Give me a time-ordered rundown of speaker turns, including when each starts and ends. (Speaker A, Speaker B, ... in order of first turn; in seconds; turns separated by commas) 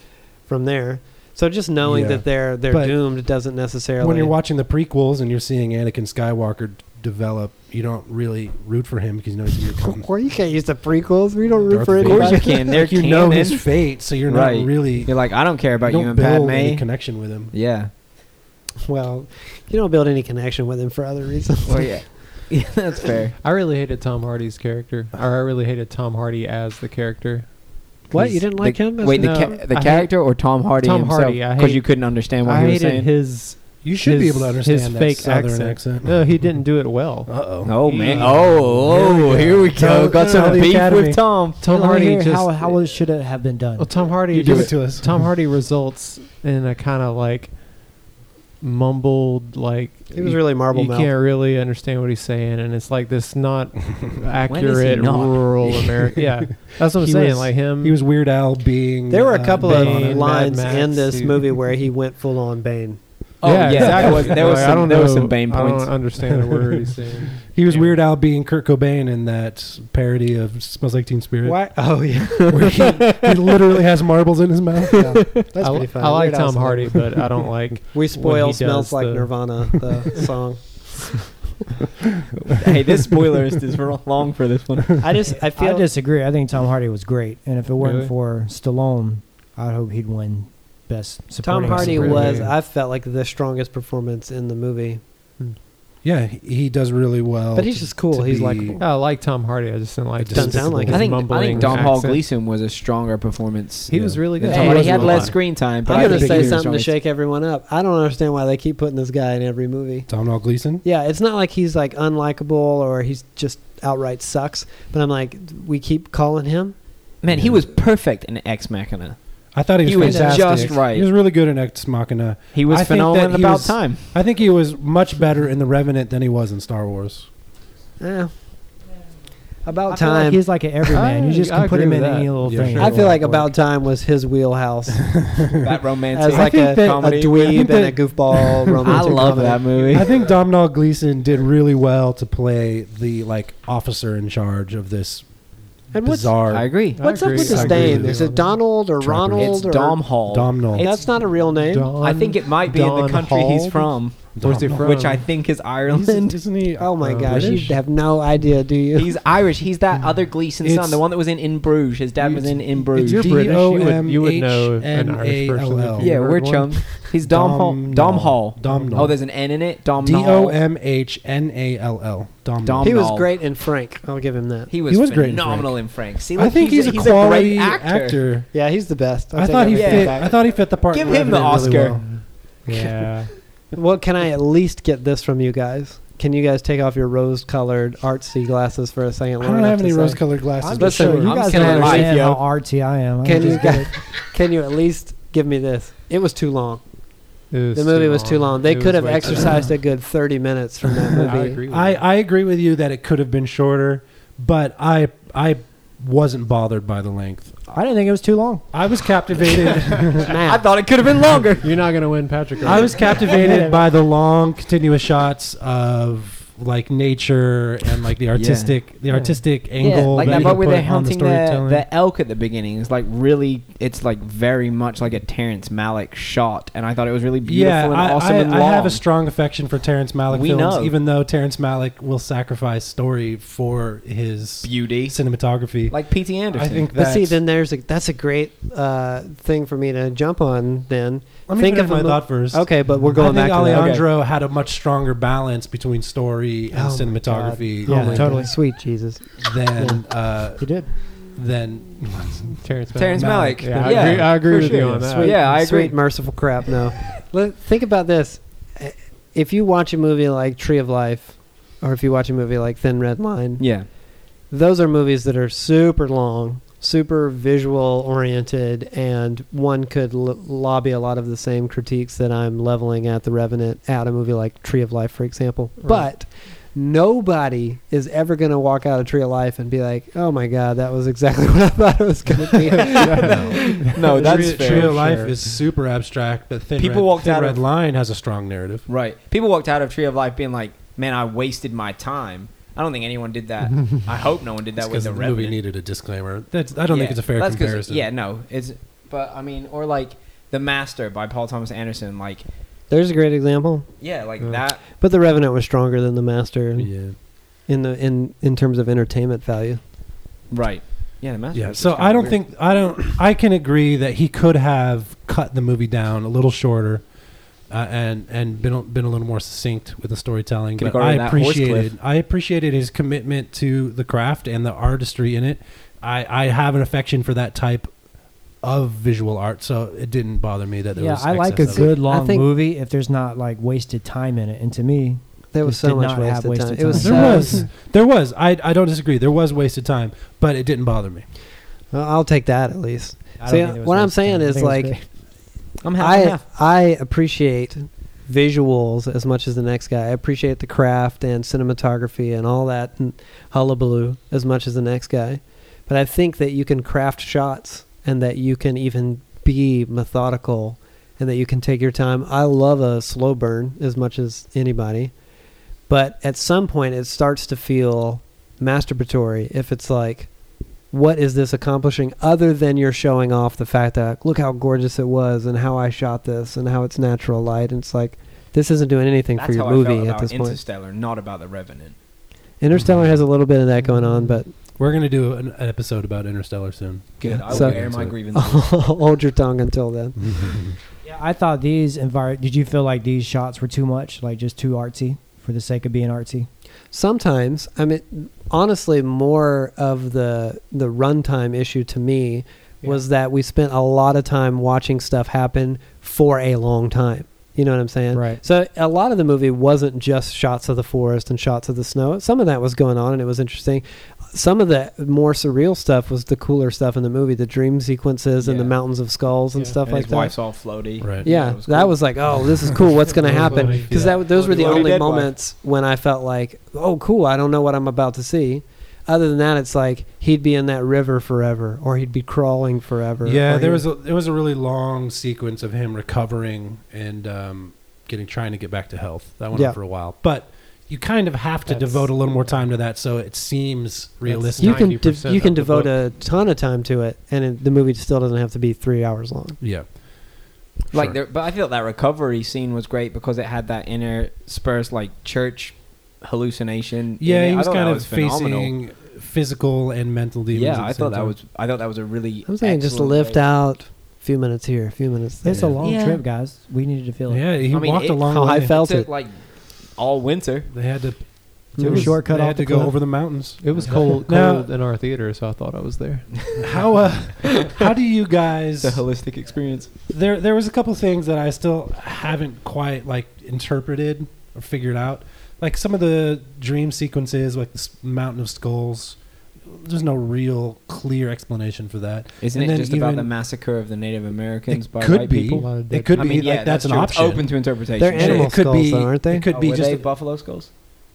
Speaker A: 0.5-4.4, Speaker B: 1.8-3.1, Speaker B: 4.0-10.1, Speaker A: 9.8-12.7, Speaker B: 11.7-17.5, Speaker C: 12.0-17.9, Speaker A: 18.9-22.2, Speaker C: 21.6-23.4, Speaker D: 23.4-27.5, Speaker D: 28.1-28.4, Speaker A: 28.1-29.4, Speaker C: 28.5-33.1, Speaker D: 29.1-30.1, Speaker D: 30.8-39.7, Speaker B: 33.8-36.6, Speaker B: 37.3-41.5, Speaker C: 37.6-41.6, Speaker D: 41.6-42.8, Speaker E: 41.6-44.1, Speaker D: 43.8-47.6, Speaker B: 44.2-45.3, Speaker C: 44.4-44.7, Speaker D: 48.6-58.0, Speaker A: 50.1-51.1, Speaker C: 54.5-56.0, Speaker B: 56.1-60.4, Speaker A: 59.1-63.0, Speaker D: 59.6-61.5, Speaker C: 63.4-66.1, Speaker D: 63.4-68.0, Speaker B: 63.7-64.7, Speaker B: 66.1-75.2, Speaker A: 71.4-72.8, Speaker A: 74.9-77.2, Speaker D: 75.1-79.6, Speaker A: 77.9-81.2, Speaker C: 82.5-85.2, Speaker A: 85.0-85.9, Speaker E: 85.3-92.5, Speaker A: 91.4-95.0, Speaker D: 91.7-92.5, Speaker B: 96.0-98.8, Speaker A: 97.5-98.8, Speaker D: 98.8-102.2, Speaker B: 100.2-101.9, Speaker A: 100.3-101.1, Speaker C: 100.9-107.0, Speaker D: 103.9-105.3, Speaker B: 103.9-106.6, Speaker A: 105.8-110.1, Speaker B: 110.1-110.8, Speaker A: 110.8-116.8, Speaker C: 117.2-119.2, Speaker B: 117.3-117.7, Speaker B: 119.5-127.3, Speaker C: 119.7-121.1, Speaker A: 120.0-120.7, Speaker E: 120.1-120.4, Speaker C: 122.5-124.1, Speaker A: 128.0-128.3, Speaker A: 129.6-130.4, Speaker E: 129.9-133.5, Speaker D: 130.9-132.8, Speaker B: 132.4-133.1, Speaker A: 132.8-135.3, Speaker B: 135.0-135.8, Speaker C: 135.6-137.7, Speaker A: 136.1-140.2, Speaker B: 136.3-145.3, Speaker C: 138.8-140.2, Speaker A: 145.9-150.0, Speaker B: 146.0-149.7, Speaker C: 146.5-147.3, Speaker D: 146.9-148.7, Speaker C: 149.4-151.3, Speaker B: 150.2-151.2, Speaker A: 150.8-151.9, Speaker D: 151.7-155.3, Speaker C: 152.0-156.4, Speaker B: 154.3-155.0, Speaker B: 155.9-157.8, Speaker A: 156.8-159.2, Speaker D: 157.0-157.6, Speaker C: 158.9-163.3, Speaker B: 160.6-161.0, Speaker B: 162.2-166.2, Speaker D: 163.0-166.9, Speaker C: 166.0-170.6, Speaker B: 167.2-169.3, Speaker D: 168.7-169.0, Speaker B: 170.0-173.1, Speaker C: 172.6-173.3, Speaker A: 172.8-174.7, Speaker C: 174.7-178.2, Speaker B: 174.9-178.5, Speaker A: 178.5-180.4, Speaker B: 179.3-182.0, Speaker C: 179.7-182.1, Speaker D: 181.7-183.3, Speaker B: 182.7-183.3, Speaker A: 182.7-183.1, Speaker A: 183.7-192.1, Speaker B: 189.4-192.2, Speaker E: 190.6-194.0, Speaker C: 191.2-192.4, Speaker A: 193.2-196.8, Speaker D: 197.5-199.7, Speaker A: 197.7-201.6, Speaker D: 201.2-202.0, Speaker B: 201.7-207.6, Speaker E: 207.7-208.7, Speaker B: 208.7-210.4, Speaker C: 209.4-211.7, Speaker A: 210.2-210.7, Speaker D: 211.6-213.7, Speaker B: 212.6-221.9, Speaker C: 212.8-213.3, Speaker E: 213.3-213.8, Speaker C: 218.3-218.8, Speaker D: 219.1-220.6, Speaker C: 219.7-229.0, Speaker B: 227.4-237.4, Speaker C: 230.3-230.9, Speaker C: 234.6-235.2, Speaker C: 235.9-236.9, Speaker A: 236.9-243.9, Speaker B: 241.5-248.5, Speaker C: 243.7-244.1, Speaker A: 246.7-250.0, Speaker E: 247.8-248.6, Speaker B: 249.4-255.0, Speaker E: 250.6-250.9, Speaker D: 252.6-255.4, Speaker C: 252.9-256.0, Speaker A: 255.1-263.8, Speaker C: 263.6-263.9, Speaker A: 264.5-283.4, Speaker D: 275.8-276.1, Speaker D: 282.8-285.4, Speaker C: 282.8-285.0, Speaker B: 283.1-288.9, Speaker C: 286.8-287.6, Speaker C: 288.9-295.6, Speaker B: 294.8-298.1, Speaker C: 296.9-302.4, Speaker A: 302.9-303.9, Speaker C: 304.0-304.8, Speaker A: 304.9-309.8, Speaker B: 306.8-307.2, Speaker C: 310.5-312.4, Speaker B: 311.5-317.1, Speaker B: 317.7-327.9, Speaker C: 320.8-321.9, Speaker B: 328.6-332.0, Speaker E: 330.9-337.7, Speaker A: 331.7-332.5, Speaker A: 335.5-337.7, Speaker B: 336.9-341.3, Speaker C: 336.9-337.6, Speaker A: 341.9-345.1, Speaker E: 343.4-345.0, Speaker C: 345.8-346.4, Speaker A: 346.0-365.1, Speaker A: 365.9-370.3, Speaker A: 370.9-380.6, Speaker C: 379.4-382.0, Speaker A: 382.6-384.5, Speaker B: 382.8-383.1, Speaker B: 384.7-388.2, Speaker C: 387.2-388.8, Speaker A: 387.5-390.6, Speaker B: 390.2-390.8, Speaker E: 391.0-396.5, Speaker A: 396.9-420.4, Speaker E: 408.1-408.4, Speaker C: 418.4-418.8, Speaker C: 419.8-422.4, Speaker B: 421.0-421.3, Speaker A: 421.2-433.9, Speaker D: 423.2-424.9, Speaker B: 423.2-424.2, Speaker C: 423.9-425.3, Speaker B: 433.2-445.6, Speaker A: 439.5-439.8, Speaker D: 441.7-442.6, Speaker D: 444.2-445.9, Speaker A: 444.6-449.6, Speaker B: 449.6-450.0, Speaker B: 450.9-451.2, Speaker C: 450.9-458.7, Speaker B: 457.2-461.4, Speaker C: 460.5-463.4, Speaker A: 462.5-465.7, Speaker E: 465.4-467.5, Speaker B: 465.5-465.8, Speaker C: 465.8-466.2, Speaker B: 467.3-468.8, Speaker C: 467.7-470.7, Speaker A: 468.2-469.1, Speaker B: 470.7-474.7, Speaker A: 471.8-472.2, Speaker E: 471.8-473.2, Speaker D: 473.6-476.9, Speaker B: 476.6-479.1, Speaker C: 477.4-477.8, Speaker C: 478.8-480.0, Speaker B: 480.1-493.3, Speaker C: 492.4-498.6, Speaker B: 494.7-500.1, Speaker D: 495.5-496.5, Speaker A: 498.0-499.5, Speaker C: 499.5-500.7